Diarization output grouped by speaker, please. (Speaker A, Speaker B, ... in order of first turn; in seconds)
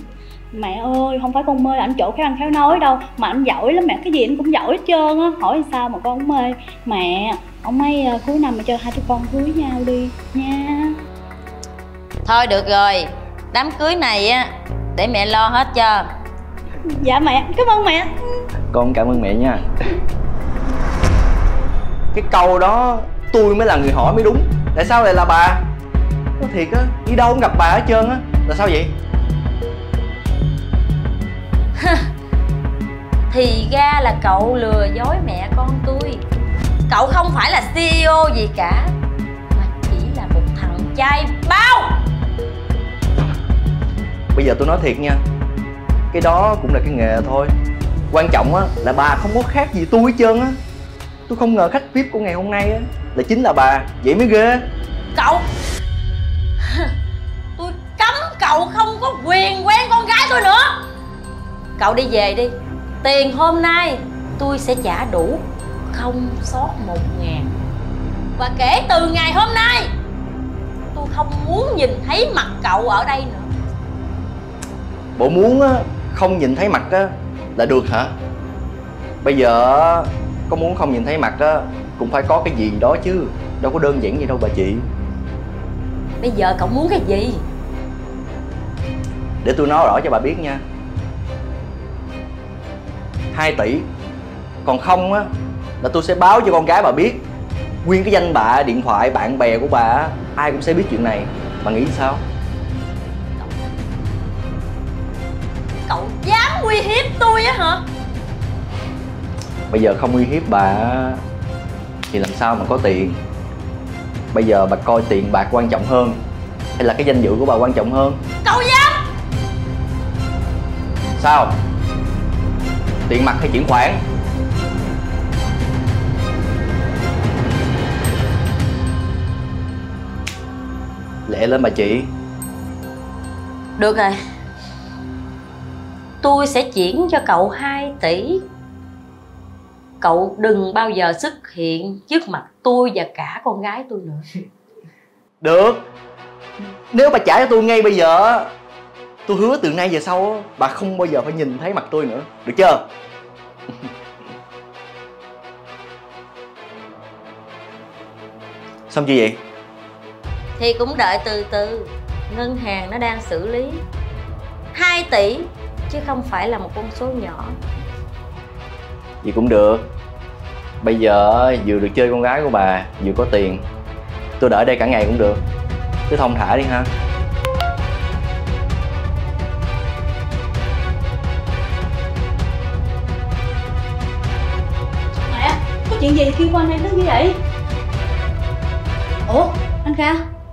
Speaker A: 0.5-10.9, 17.0-18.1, 185.3-187.3, 189.3-190.2
Speaker B: 12.2-16.1, 31.8-32.1, 33.3-36.2, 36.9-38.9, 39.5-42.0, 55.1-55.5, 56.6-56.9, 57.6-60.8, 61.8-67.5, 68.4-69.9, 70.9-73.5, 86.2-87.4, 105.9-107.8, 118.4-119.0, 133.8-134.2, 136.2-138.4, 140.0-144.2, 160.6-163.8, 164.7-167.6
Speaker C: 18.7-19.7, 22.1-25.6, 26.4-28.9, 44.3-45.2, 46.1-47.5, 48.1-50.6, 51.3-54.6, 75.2-78.1, 79.2-84.8, 89.4-90.6, 93.3-93.9, 94.6-95.3, 95.8-97.2, 97.8-102.2, 109.7-111.2, 112.1-113.2, 114.3-116.2, 116.8-118.2, 121.2-121.6, 123.1-124.0, 131.3-132.1, 145.4-145.8, 146.9-148.5, 149.3-152.8, 158.9-159.4, 169.2-169.9, 170.8-173.6, 174.4-175.4, 176.1-176.9